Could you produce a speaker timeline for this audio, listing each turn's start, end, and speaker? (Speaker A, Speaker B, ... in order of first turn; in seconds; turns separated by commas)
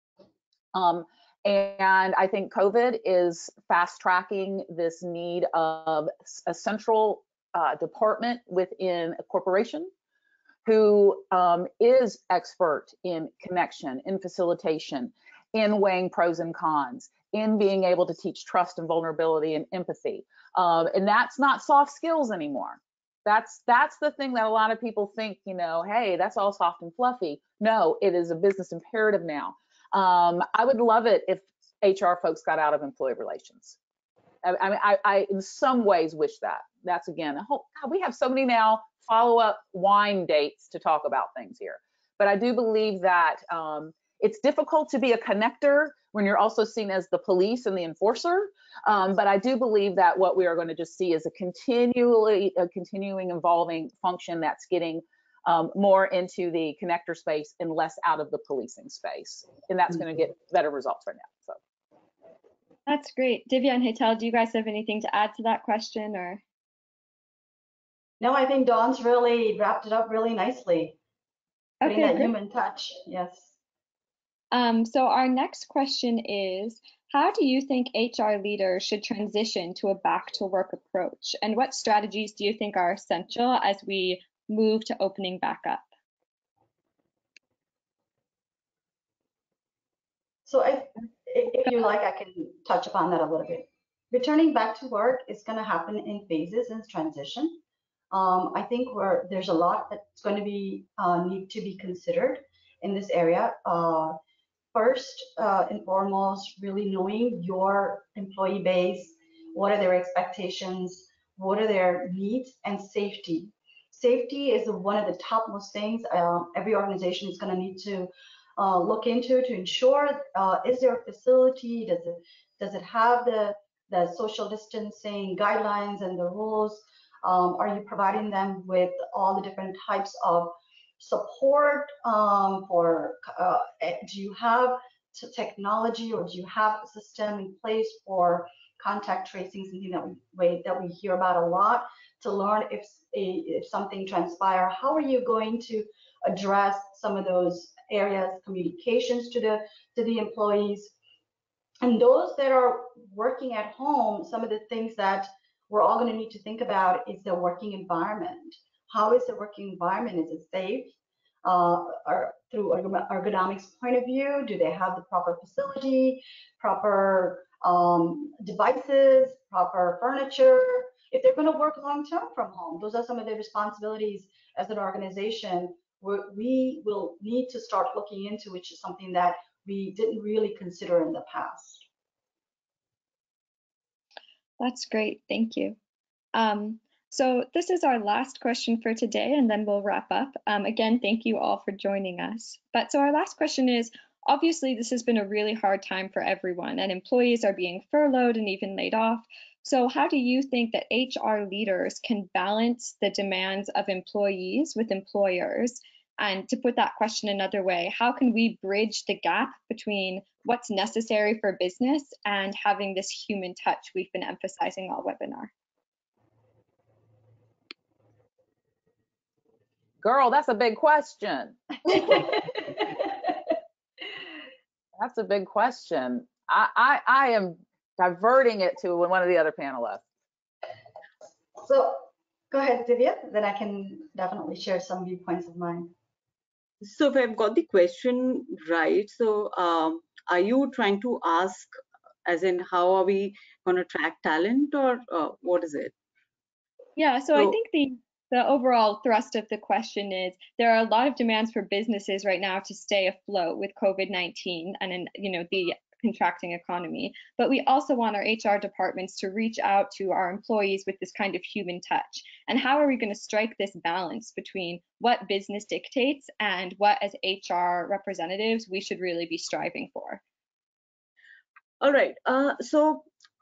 Speaker A: 0.7-9.9, Speaker A: 10.7-33.8, Speaker A: 34.4-61.6, Speaker B: 62.9-66.4, Speaker C: 68.2-71.0, Speaker B: 71.8-72.3, Speaker C: 71.8-73.5, Speaker B: 74.5-85.8, Speaker C: 90.5-97.6, Speaker C: 98.1-104.2, Speaker C: 104.7-150.9, Speaker C: 151.8-160.9, Speaker C: 161.4-181.8, Speaker B: 184.6-185.8, Speaker B: 186.3-215.5, Speaker A: 220.0-222.4, Speaker A: 225.0-230.0, Speaker C: 231.6-235.9, Speaker D: 236.8-241.7, Speaker D: 242.3-245.9, Speaker B: 247.0-270.2, Speaker D: 271.8-273.1